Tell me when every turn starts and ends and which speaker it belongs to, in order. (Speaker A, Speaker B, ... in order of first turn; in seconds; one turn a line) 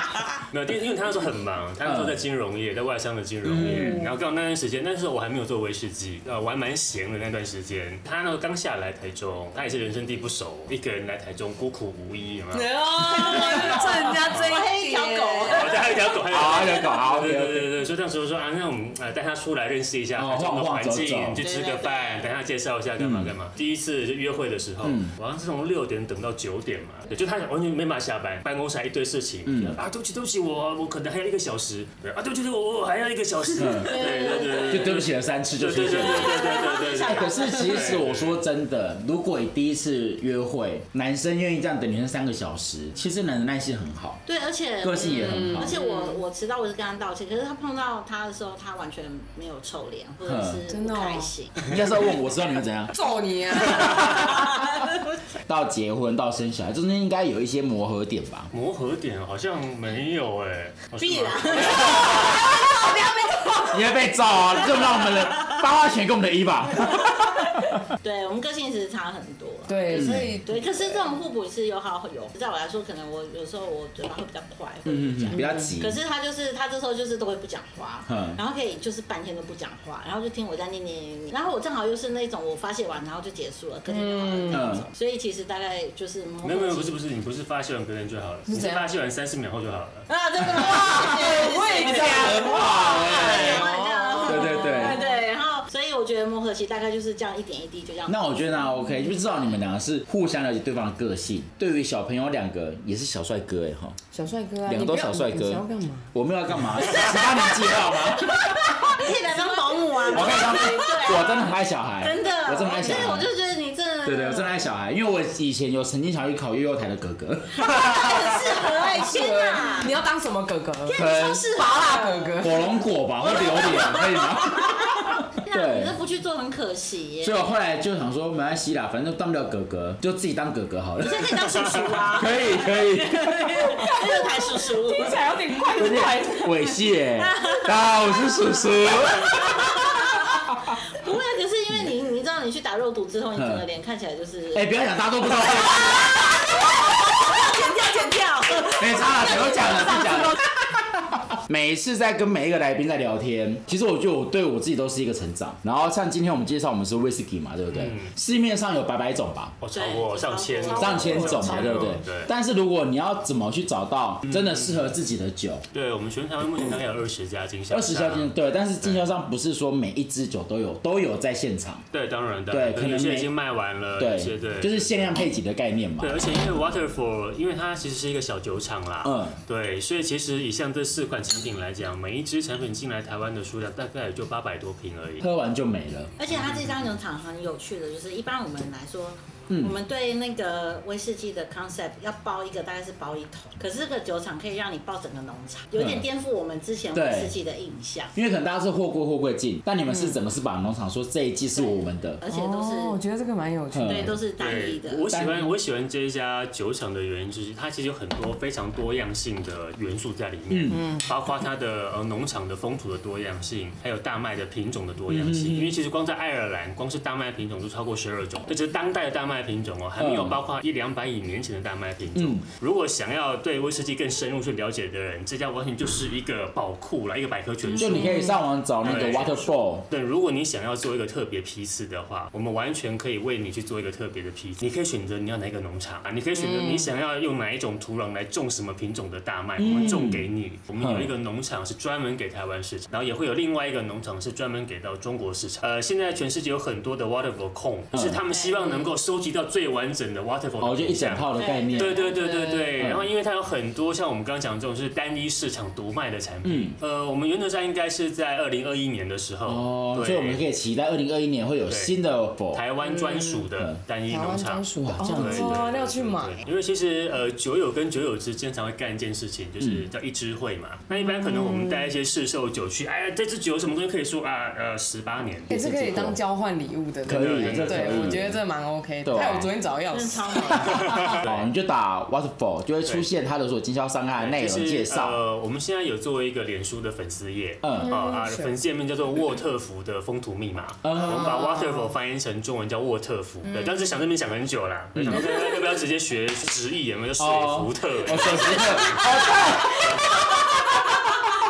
Speaker A: 0.5-14.7
Speaker B: 1.8-2.2
Speaker B: 3.4-4.0
Speaker C: 3.6-4.2
Speaker C: 12.5-15.8
Speaker D: 13.0-16.8
Speaker A: 15.5-38.4
Speaker B: 16.3-17.7
Speaker B: 20.2-21.4
Speaker D: 21.4-22.3
Speaker B: 23.0-23.3
Speaker B: 24.8-25.1
Speaker B: 29.5-29.8
Speaker B: 33.6-44.2
Speaker D: 33.8-34.9
Speaker D: 35.9-38.0
Speaker D: 44.3-51.8
Speaker B: 44.8-45.8
Speaker C: 45.0-46.2
Speaker B: 50.2-50.6
Speaker C: 50.7-51.4
Speaker B: 51.7-53.0
Speaker C: 52.9-54.2
Speaker B: 53.6-54.5
Speaker D: 54.1-54.8
Speaker B: 55.5-58.5
Speaker A: 58.5-62.4
Speaker D: 61.0-63.0
Speaker B: 61.7-62.1
Speaker C: 62.0-63.9
Speaker B: 63.7-67.8
Speaker D: 64.6-65.7
Speaker D: 66.8-87.0
Speaker C: 69.7-71.1
Speaker B: 69.9-70.4
Speaker B: 74.8-76.0
Speaker C: 75.3-75.8
Speaker B: 78.1-78.4
Speaker C: 83.9-84.8
Speaker B: 84.5-84.9
Speaker A: 86.4-90.1
Speaker C: 88.5-88.9
Speaker D: 90.1-98.3
Speaker B: 90.6-93.7
Speaker C: 90.6-95.2
Speaker B: 94.2-95.0
Speaker B: 98.1-104.0
Speaker C: 104.1-106.1
Speaker B: 104.7-109.0
Speaker D: 106.8-114.6
Speaker C: 110.0-111.3
Speaker B: 110.1-113.3
Speaker B: 114.0-118.4
Speaker D: 117.5-120.0
Speaker C: 118.9-122.6
Speaker D: 120.8-122.6
Speaker B: 121.0-121.5
Speaker B: 122.4-126.0
Speaker D: 123.2-127.5
Speaker B: 127.2-133.8
Speaker D: 131.0-135.3
Speaker C: 133.6-136.8
Speaker B: 135.8-140.7
Speaker D: 137.2-150.5
Speaker B: 143.3-143.7
Speaker B: 144.5-146.3
Speaker B: 148.8-150.4
Speaker B: 151.1-159.6
Speaker A: 157.7-158.1
Speaker A: 159.6-162.3
Speaker D: 159.7-161.9
Speaker C: 160.6-162.0
Speaker B: 160.7-165.6
Speaker A: 164.3-164.9
Speaker A: 165.7-169.1
Speaker B: 167.7-171.8
Speaker A: 171.9-175.3
Speaker B: 172.5-173.3
Speaker B: 174.0-176.2
Speaker A: 176.0-185.2
Speaker B: 179.0-179.4
Speaker B: 185.2-186.1
Speaker D: 186.2-198.2
Speaker A: 186.3-186.8
Speaker B: 189.5-189.8
Speaker B: 195.8-196.1
Speaker B: 196.9-197.3
Speaker B: 198.2-202.2
Speaker C: 199.9-200.2
Speaker D: 201.5-203.0
Speaker C: 202.3-204.2
Speaker B: 203.7-204.2
Speaker D: 203.8-205.1
Speaker A: 204.4-228.2
Speaker B: 205.1-205.5
Speaker B: 210.5-210.8
Speaker C: 210.7-211.1
Speaker B: 215.1-215.8
Speaker B: 220.0-220.4
Speaker B: 222.2-222.4
Speaker B: 227.8-229.9
Speaker C: 227.8-228.4
Speaker A: 228.8-260.4
Speaker D: 228.8-229.5
Speaker C: 236.3-236.9
Speaker B: 239.6-240.3
Speaker B: 240.8-241.1
Speaker B: 247.9-248.2
Speaker D: 248.3-248.9
Speaker B: 250.6-253.1
Speaker D: 251.3-252.3
Speaker B: 256.4-256.8
Speaker B: 259.4-262.6
Speaker A: 261.7-262.0
Speaker A: 262.5-275.5
Speaker C: 262.8-263.4
Speaker C: 264.1-266.4
Speaker B: 264.8-265.6
Speaker B: 269.6-269.9
Speaker C: 270.9-271.9
Speaker B: 275.5-276.2
Speaker C: 275.5-280.8
Speaker A: 277.1-278.2
Speaker B: 277.1-278.4
Speaker B: 279.0-279.5
Speaker D: 279.9-281.1
Speaker B: 280.6-285.2
Speaker A: 280.8-281.5
Speaker A: 284.2-299.1
Speaker B: 287.6-287.9
Speaker C: 287.8-288.5
Speaker B: 290.8-291.5
Speaker C: 290.9-291.9
Speaker C: 293.4-293.9
Speaker B: 294.9-295.4
Speaker B: 297.2-300.9